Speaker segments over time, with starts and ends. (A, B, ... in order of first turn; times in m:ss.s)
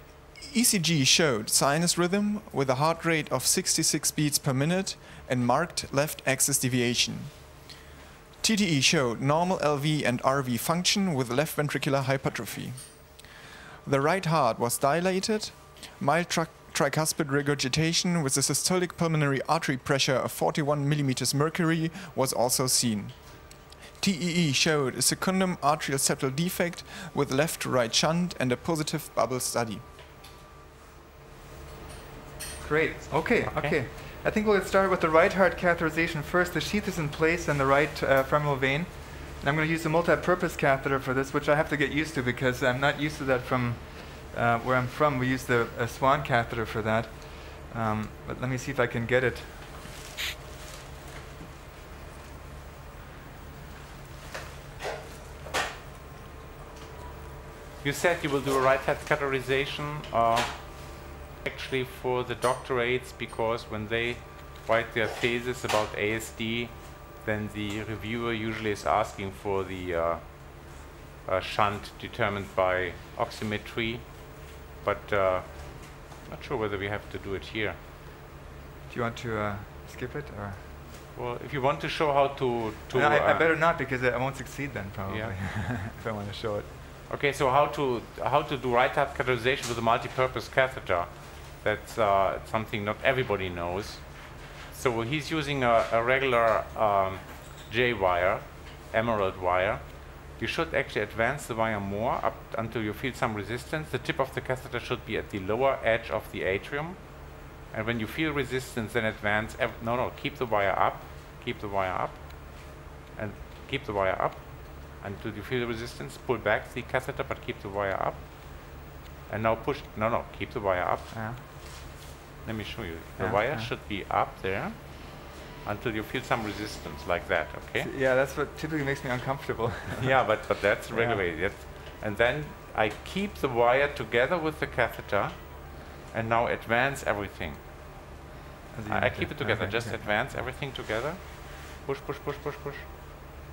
0:00.3-0:07.8 A
0:08.4-0:29.8 A
0:32.6-0:49.8 B
0:33.4-0:33.8 C
0:57.8-1:17.8 C
1:18.9-1:20.7 B
1:21.1-1:23.5 C
1:22.9-1:26.7 B
1:25.1-1:25.3 C
1:27.1-2:01.9 C
2:01.1-2:01.4 B
2:02.4-2:07.9 C
2:03.2-2:03.7 B
2:07.8-2:11.2 B
2:10.0-2:18.2 C
2:18.7-2:20.3 B
2:18.9-2:23.3 C